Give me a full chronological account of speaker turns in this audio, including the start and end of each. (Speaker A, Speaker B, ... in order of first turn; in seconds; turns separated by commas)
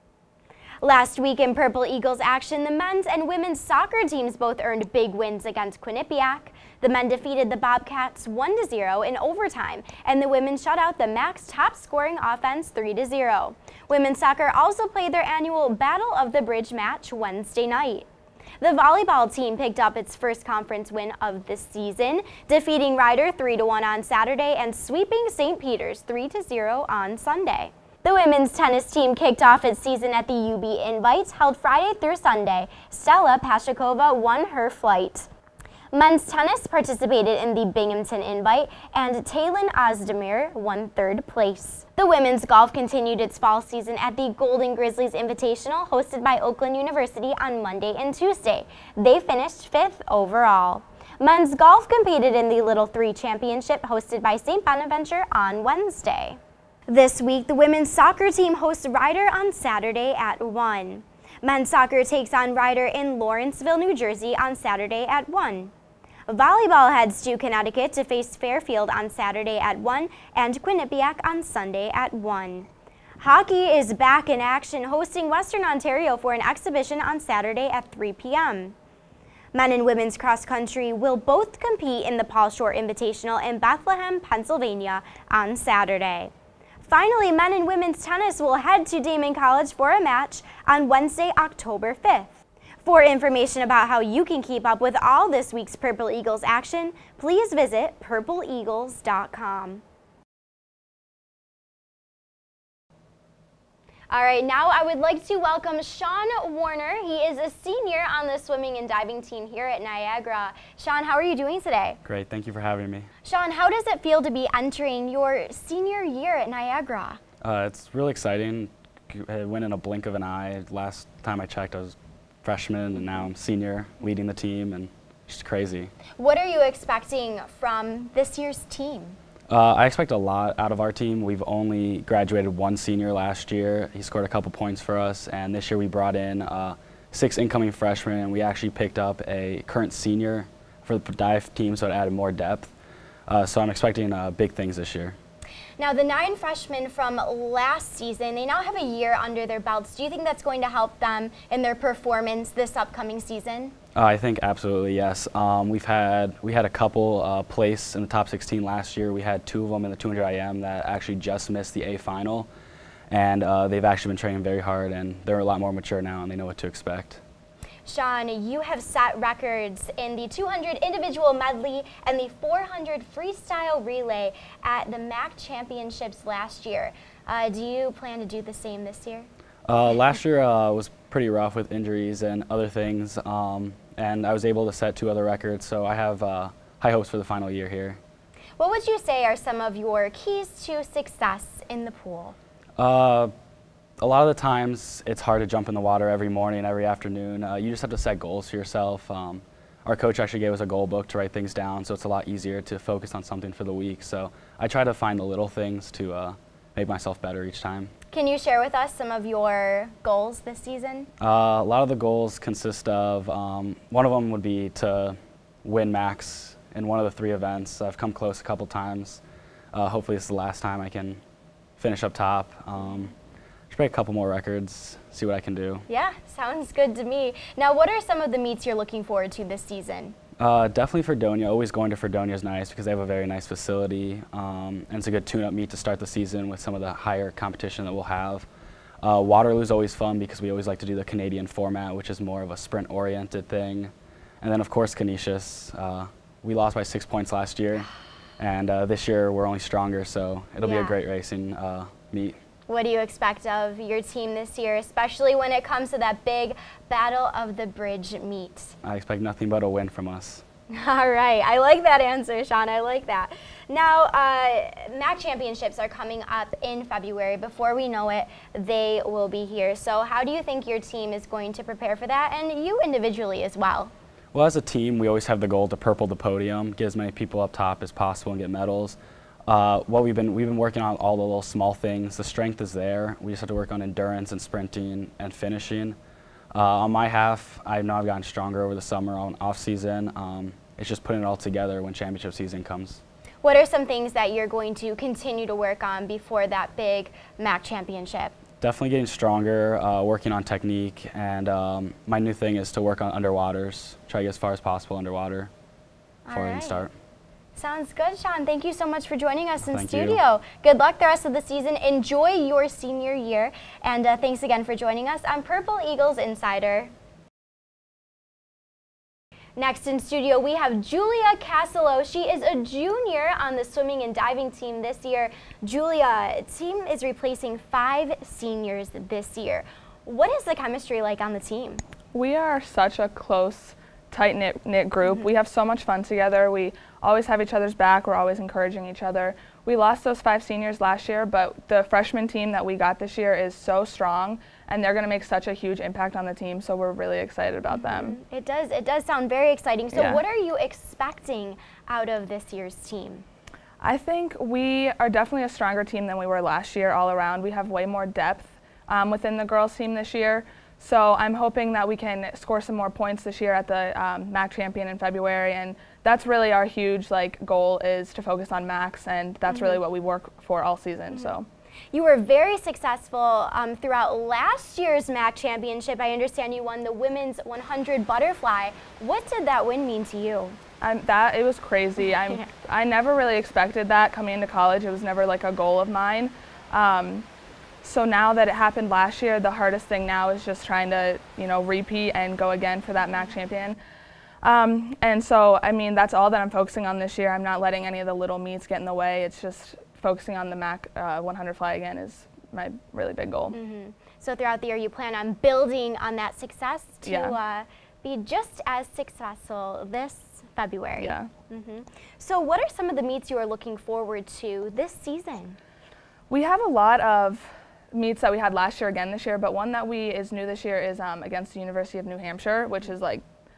Speaker A: 0.8-18.1, Speaker A: 18.6-35.3, Speaker A: 35.9-65.7, Speaker A: 66.3-72.7, Speaker A: 73.2-78.8, Speaker A: 79.5-86.3, Speaker A: 86.8-99.8, Speaker A: 104.1-112.0, Speaker B: 112.0-113.1, Speaker A: 113.2-117.2, Speaker B: 117.4-125.9, Speaker A: 126.2-129.2, Speaker B: 129.5-142.7, Speaker B: 143.3-145.2, Speaker A: 145.8-153.7, Speaker B: 153.9-162.5, Speaker B: 163.1-167.2, Speaker A: 167.8-179.3, Speaker B: 179.7-188.0, Speaker A: 188.6-192.3, Speaker B: 192.8-193.3, Speaker B: 194.0-207.9, Speaker A: 208.1-211.1, Speaker B: 211.2-219.2, Speaker B: 219.7-221.2, Speaker B: 221.8-223.1, Speaker B: 223.7-225.8, Speaker A: 225.9-230.1, Speaker B: 230.4-238.5, Speaker B: 239.0-252.4, Speaker A: 250.6-251.0, Speaker A: 252.7-258.7, Speaker B: 258.8-260.4, Speaker A: 260.7-273.9, Speaker B: 274.3-286.0, Speaker B: 286.5-293.0, Speaker A: 293.4-298.3, Speaker B: 298.6-305.5, Speaker A: 306.2-306.8, Speaker B: 306.3-306.9, Speaker A: 307.5-316.9, Speaker B: 309.6-310.2, Speaker A: 319.6-331.8, Speaker C: 332.1-348.2, Speaker A: 347.7-353.2, Speaker C: 349.9-350.2, Speaker C: 353.8-371.5, Speaker A: 369.5-369.8, Speaker A: 371.9-380.6, Speaker C: 380.8-387.3, Speaker A: 382.0-382.4, Speaker C: 387.8-393.8, Speaker C: 394.4-403.6, Speaker A: 403.5-415.6, Speaker C: 407.0-407.4, Speaker C: 411.0-411.3, Speaker C: 416.3-423.2